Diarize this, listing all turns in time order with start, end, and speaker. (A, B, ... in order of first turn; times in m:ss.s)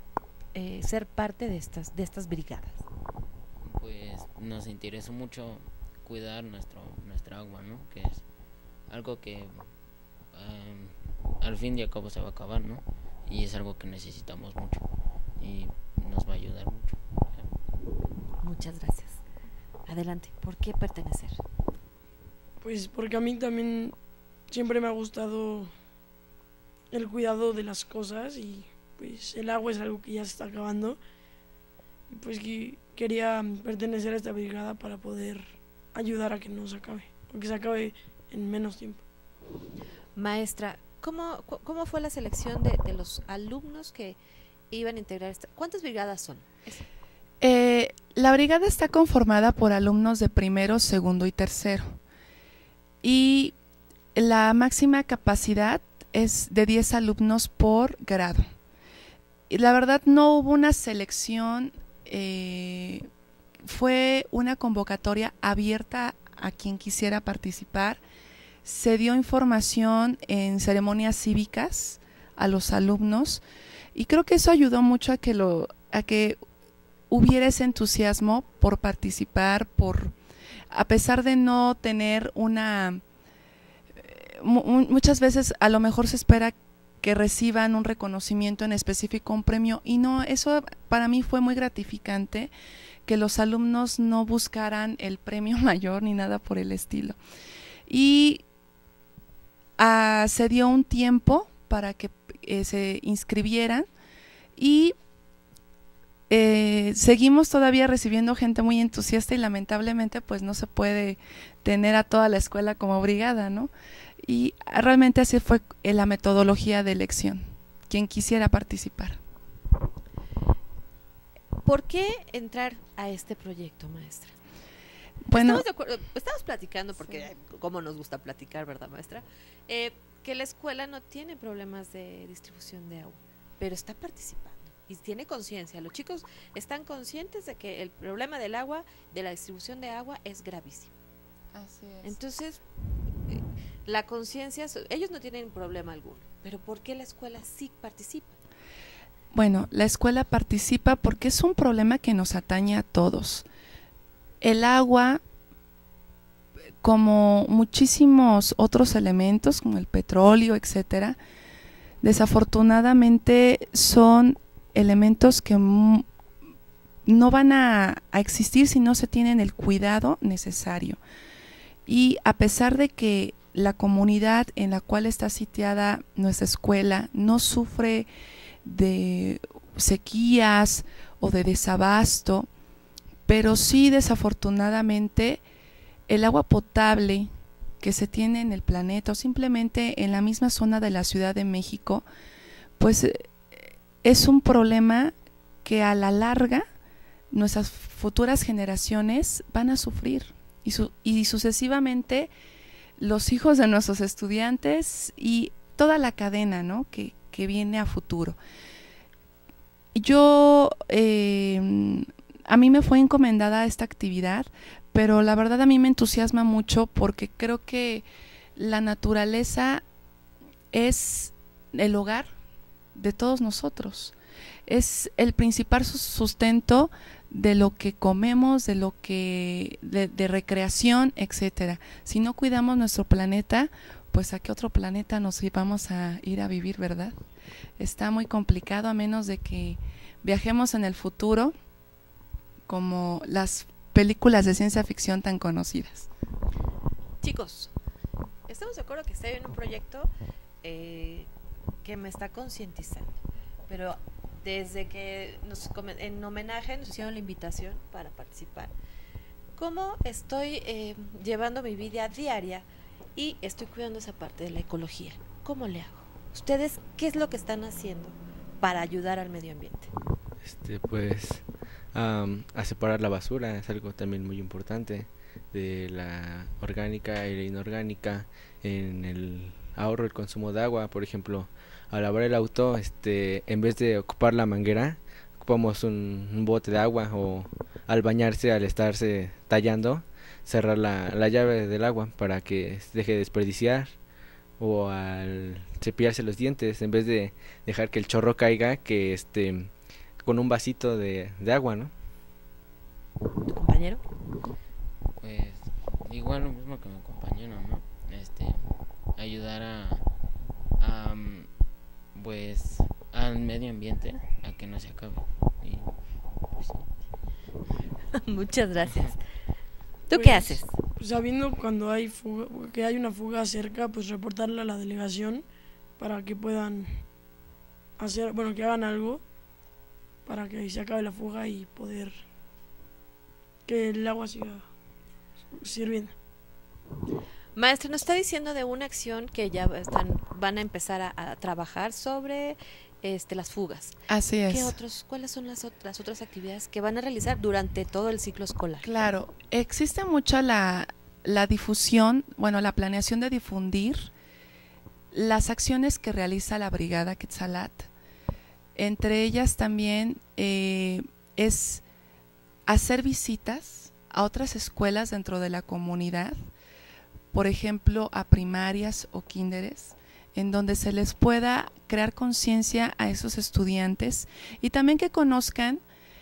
0:00.6-0:02.8 A
0:03.6-0:08.2 B
0:08.9-0:09.7 B
0:10.3-0:14.8 B
0:15.4-0:17.6 B
0:18.4-0:19.2 A
0:19.9-0:21.4 A
0:22.6-0:24.0 C
0:24.5-0:25.7 C
0:26.9-0:31.0 C
0:32.1-0:39.0 C
0:40.2-0:44.2 A
0:44.7-0:46.8 A
0:47.4-0:52.0 D
0:53.0-0:53.6 D
0:54.2-0:58.4 D
0:59.5-1:03.1 D
1:03.6-1:08.0 D
1:08.6-1:13.4 D
1:14.0-1:16.4 D
1:17.1-1:20.1 D
1:20.7-1:23.0 D
1:24.0-1:32.5 D
1:33.1-1:37.2 D
1:37.9-1:38.4 D
1:39.8-1:43.9 D
1:44.6-1:45.0 D
1:46.3-1:53.7 D
1:54.2-1:59.2 D
2:01.6-2:04.4 A
2:05.2-2:05.6 D
2:05.3-2:20.9 A
2:21.5-2:22.2 D
2:22.0-2:22.6 A
2:23.3-2:28.4 A
2:29.3-2:33.5 D
2:34.4-2:35.2 D
2:36.8-2:41.2 D
2:42.0-2:46.1 D
2:47.0-2:51.0 D
2:51.9-2:58.1 D
2:58.6-3:02.5 D
3:03.3-3:05.4 D
3:06.1-3:07.3 D
3:07.8-3:12.1 D
3:12.8-3:16.7 D
3:17.3-3:22.3 D
3:23.0-3:28.4 D
3:30.0-3:39.8 D
3:40.7-3:42.3 D
3:43.0-3:44.2 D
3:44.7-3:57.2 D
3:57.8-4:01.5 D
4:02.7-4:06.1 D
4:07.2-4:07.7 A
4:08.5-4:10.1 A
4:10.6-4:11.3 A
4:11.8-4:13.2 A
4:13.7-4:18.7 A
4:19.6-4:22.6 A
4:23.2-4:29.9 A
4:30.4-4:53.9 E
4:54.6-4:59.7 E
5:00.2-5:01.9 E
5:03.5-5:04.0 A
5:05.2-5:10.1 B
5:10.8-5:11.5 B
5:12.2-5:16.0 B
5:16.6-5:16.9 B
5:18.1-5:19.2 A
5:20.1-5:20.7 A
5:20.1-5:25.4 C
5:26.0-5:27.0 C
5:28.0-5:29.2 C
5:30.3-5:32.2 C
5:33.7-5:34.6 C
5:35.5-5:36.2 C
5:37.6-5:44.0 A
5:44.1-5:44.7 D
5:44.5-5:48.9 A
5:48.8-5:54.1 D
5:55.1-5:57.9 D
5:58.8-6:01.8 D
6:02.7-6:06.4 D
6:07.3-6:15.8 D